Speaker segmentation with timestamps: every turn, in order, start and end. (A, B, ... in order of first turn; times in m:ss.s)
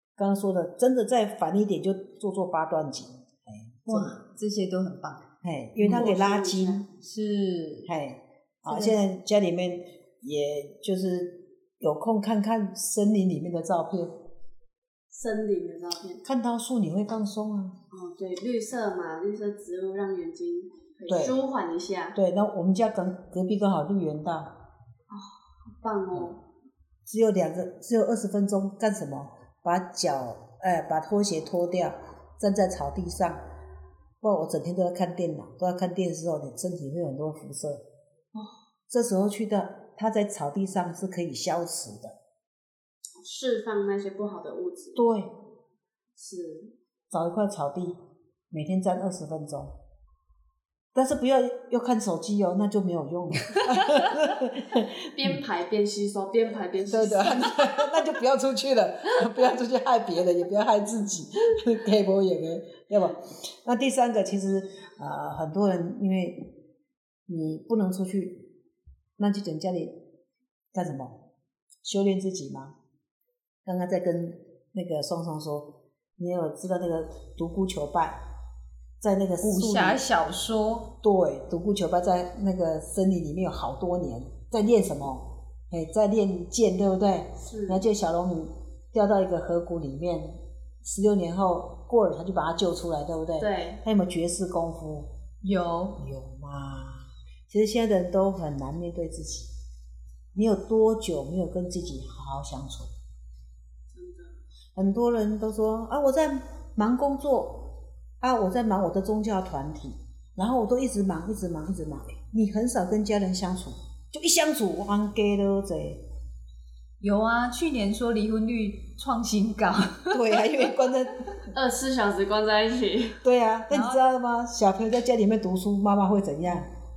0:00.2-0:04.1 A
0:03.9-0:05.3 B
0:05.4-0:06.9 A
0:05.8-0:06.1 B
0:05.9-0:06.9 C
0:07.0-0:07.9 B
0:07.9-0:14.1 A
0:08.7-0:08.9 B
0:15.1-0:16.2 C
0:16.2-0:17.8 A
0:17.9-0:22.2 C
0:21.1-0:21.4 A
0:22.1-0:24.5 A
0:25.1-0:26.4 C
0:27.1-0:33.4 A
0:34.2-0:37.8 A
0:38.3-0:38.6 C
0:38.9-0:42.2 A
0:43.2-0:45.0 C
0:45.0-0:45.3 A
0:46.2-0:46.7 C
0:47.1-0:48.0 A
0:48.5-0:49.8 A
0:50.9-0:55.4 A
0:55.1-0:57.8 C
0:56.9-1:06.6 A
1:07.3-1:08.5 A
1:09.2-1:10.0 A
1:10.7-1:11.2 A
1:11.8-1:12.8 A
1:13.6-1:18.2 A
1:19.0-1:20.0 A
1:19.4-1:20.9 B
1:21.0-1:35.2 A
1:27.4-1:27.9 C
1:33.4-1:33.8 C
1:35.4-1:36.0 B
1:36.0-1:39.5 A
1:40.3-1:42.9 A
1:43.9-1:44.4 C
1:44.8-1:56.0 A
1:57.0-2:00.2 B
2:00.1-2:01.3 A
2:01.5-2:03.2 C
2:03.2-2:06.7 A
2:03.7-2:04.0 B